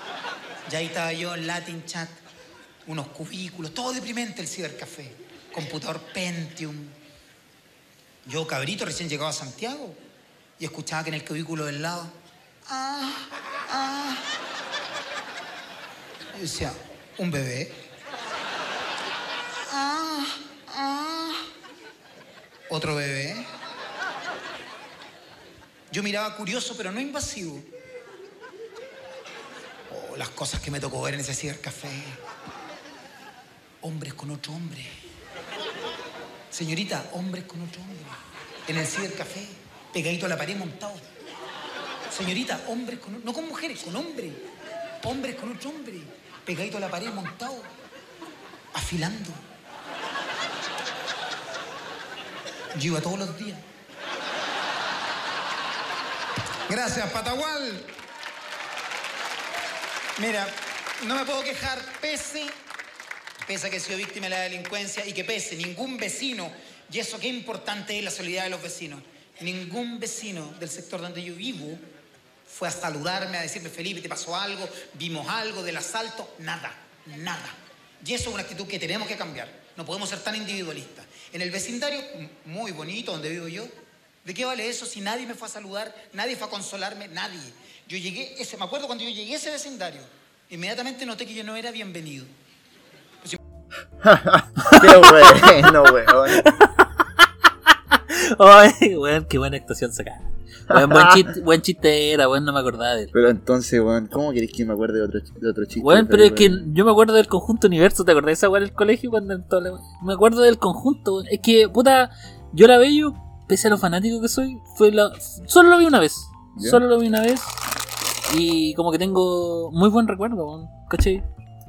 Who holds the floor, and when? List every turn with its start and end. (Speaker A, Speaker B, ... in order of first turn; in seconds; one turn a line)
Speaker A: 0.7-2.2
Speaker A: 2.9-6.9
Speaker A: 8.2-10.0
Speaker A: 10.6-12.1
Speaker A: 12.7-14.2
Speaker A: 16.3-17.8
Speaker A: 19.7-21.5
Speaker A: 22.7-23.5
Speaker A: 25.9-27.7
Speaker A: 29.9-32.2
Speaker A: 33.8-34.9
Speaker A: 36.5-41.0
Speaker A: 42.1-44.4
Speaker A: 45.0-47.7
Speaker A: 48.7-49.4
Speaker A: 52.7-53.6
Speaker A: 56.7-57.9
Speaker A: 60.2-62.6
Speaker A: 63.4-71.8
Speaker A: 72.5-83.7
Speaker A: 84.2-92.3
Speaker B: 94.0-96.5
Speaker C: 94.6-103.1
Speaker B: 100.7-101.3
Speaker B: 103.1-106.7
Speaker C: 105.8-117.6
Speaker B: 116.5-116.8
Speaker C: 118.3-121.2